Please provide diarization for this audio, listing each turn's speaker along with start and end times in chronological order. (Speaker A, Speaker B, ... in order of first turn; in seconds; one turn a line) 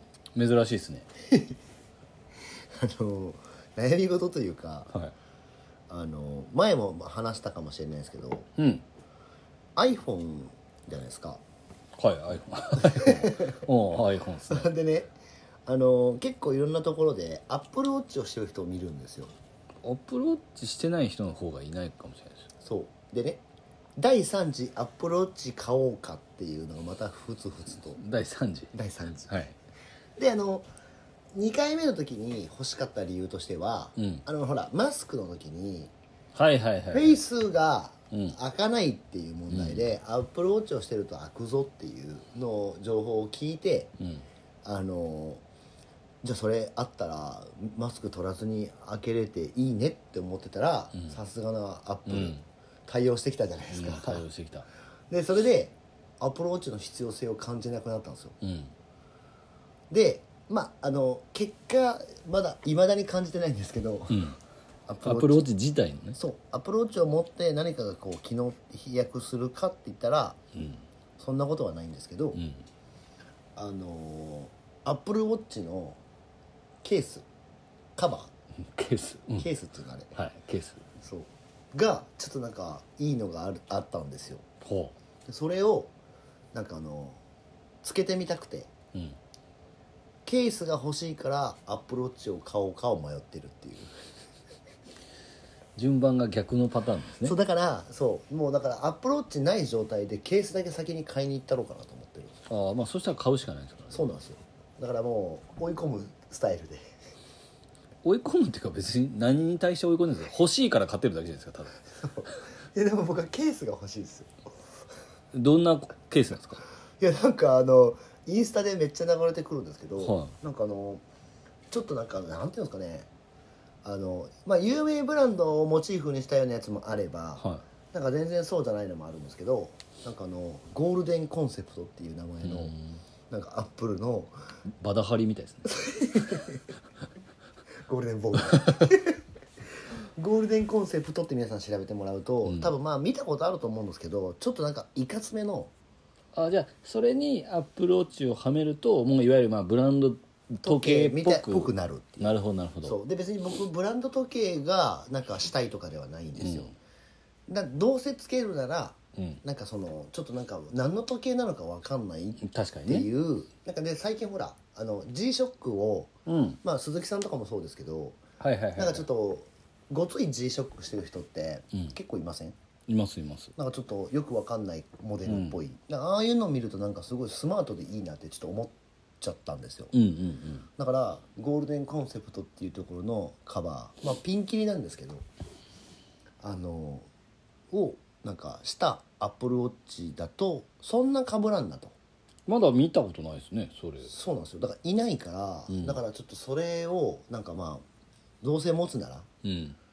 Speaker A: 0.3-1.1
Speaker B: 1.3-1.5
Speaker B: 2.8-4.9
Speaker B: 5.9-8.5
Speaker A: 8.6-8.8
Speaker B: 9.8-11.4
Speaker A: 12.0-14.7
Speaker B: 12.9-13.6
Speaker B: 14.5-15.1
Speaker B: 15.7-19.3
Speaker A: 19.8-22.4
Speaker B: 22.6-23.4
Speaker B: 24.0-28.0
Speaker A: 27.9-28.7
Speaker B: 28.7-29.4
Speaker A: 29.3-29.6
Speaker B: 30.2-30.7
Speaker B: 31.3-35.9
Speaker A: 34.0-34.2
Speaker A: 36.4-37.2
Speaker B: 36.9-43.9
Speaker A: 38.1-38.4
Speaker A: 39.5-39.9
Speaker A: 44.0-44.2
Speaker B: 44.6-45.4
Speaker B: 46.2-54.3
Speaker A: 52.1-52.4
Speaker A: 53.7-54.7
Speaker B: 55.1-58.4
Speaker A: 58.4-58.7
Speaker B: 59.9-64.3
Speaker A: 64.1-64.4
Speaker B: 64.9-65.5
Speaker A: 65.0-66.2
Speaker B: 66.2-70.4
Speaker A: 70.5-70.8
Speaker B: 71.2-72.4
Speaker A: 72.3-72.6
Speaker B: 73.6-76.0
Speaker B: 76.8-77.3
Speaker B: 78.0-78.3
Speaker A: 78.6-79.5
Speaker B: 79.4-80.1
Speaker A: 80.2-80.8
Speaker B: 81.0-84.4
Speaker A: 84.6-85.0
Speaker B: 85.3-85.9
Speaker B: 86.5-87.2
Speaker B: 87.8-88.7
Speaker B: 90.2-94.0
Speaker A: 95.8-97.4
Speaker B: 97.2-102.4
Speaker A: 102.5-104.1
Speaker B: 103.9-106.9
Speaker A: 108.0-111.8
Speaker B: 112.0-114.3
Speaker A: 115.3-116.6
Speaker B: 117.0-121.0
Speaker A: 120.0-120.3
Speaker B: 121.7-123.1
Speaker B: 123.8-132.7
Speaker A: 127.4-127.6
Speaker A: 132.4-133.0
Speaker B: 133.3-134.3
Speaker A: 134.8-135.9
Speaker B: 135.7-136.6
Speaker B: 137.9-139.2
Speaker B: 140.2-145.7
Speaker A: 142.4-142.7
Speaker A: 146.3-153.0
Speaker B: 150.6-156.7
Speaker A: 156.4-156.7
Speaker B: 157.5-168.2
Speaker A: 159.2-159.4
Speaker A: 162.4-163.1
Speaker A: 166.3-166.6
Speaker A: 168.4-169.1
Speaker B: 168.8-172.6
Speaker A: 172.9-173.5
Speaker B: 173.6-179.9
Speaker A: 175.2-175.6
Speaker A: 179.9-180.7
Speaker B: 180.8-185.2
Speaker B: 186.4-187.1
Speaker B: 187.7-191.9
Speaker A: 192.5-194.1
Speaker B: 194.1-197.8
Speaker A: 195.7-196.0
Speaker B: 198.4-199.3
Speaker A: 199.4-199.8